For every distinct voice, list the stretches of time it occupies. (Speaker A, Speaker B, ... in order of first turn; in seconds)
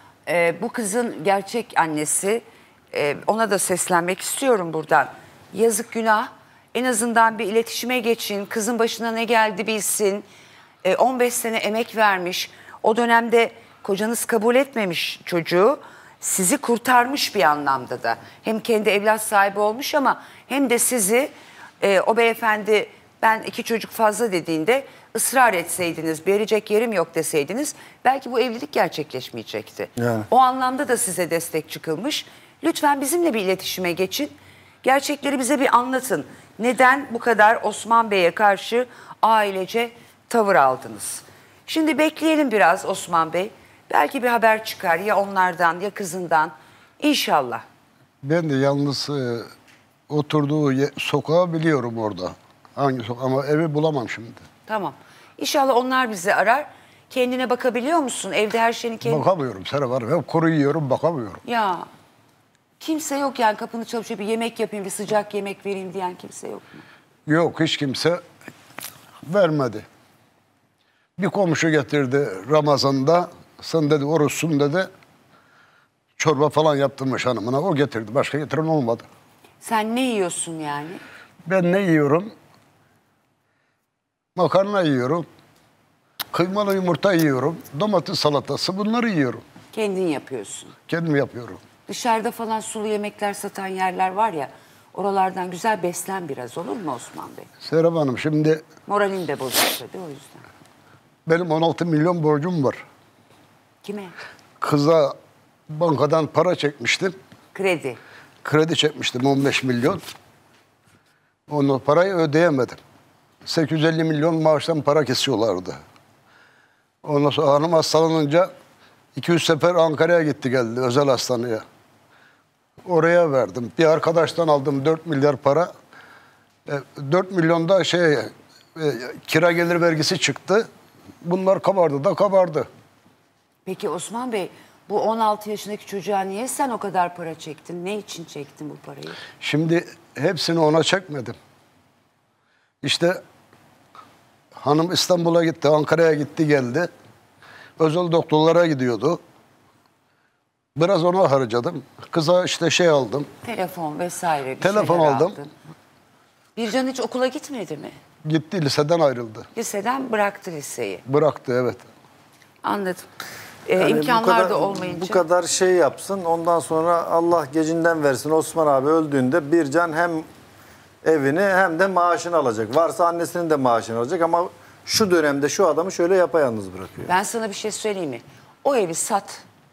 Speaker A: 0.3-10.2, 10.8-47.6, 54.7-59.2, 61.4-61.9, 62.8-66.8, 79.6-81.0, 89.7-90.7, 91.9-97.5, 98.9-100.4, 103.8-104.1, 107.5-108.0, 133.7-139.2, 153.4-155.5, 156.6-157.9, 159.5-161.0, 162.6-163.1, 163.7-165.2, 177.1-179.4
Speaker B: 30.0-30.3, 163.8-170.3, 171.0-177.1
Speaker C: 48.2-49.5, 50.1-54.4, 59.0-61.4, 67.3-68.2, 69.2-69.8, 71.2-74.9, 76.2-79.1, 81.5-82.3, 84.3-85.2, 86.3-89.4, 90.9-91.6, 97.6-98.6, 101.2-102.8, 104.6-105.2, 105.7-107.2, 108.4-110.0, 111.5-112.8, 113.4-115.8, 117.0-118.5, 119.1-121.6, 122.8-125.7, 126.7-130.7, 131.2-132.7, 139.4-141.3, 142.8-143.2, 144.5-146.9, 147.8-149.2, 150.8-153.3, 154.6-155.3, 158.2-159.4, 161.1-161.8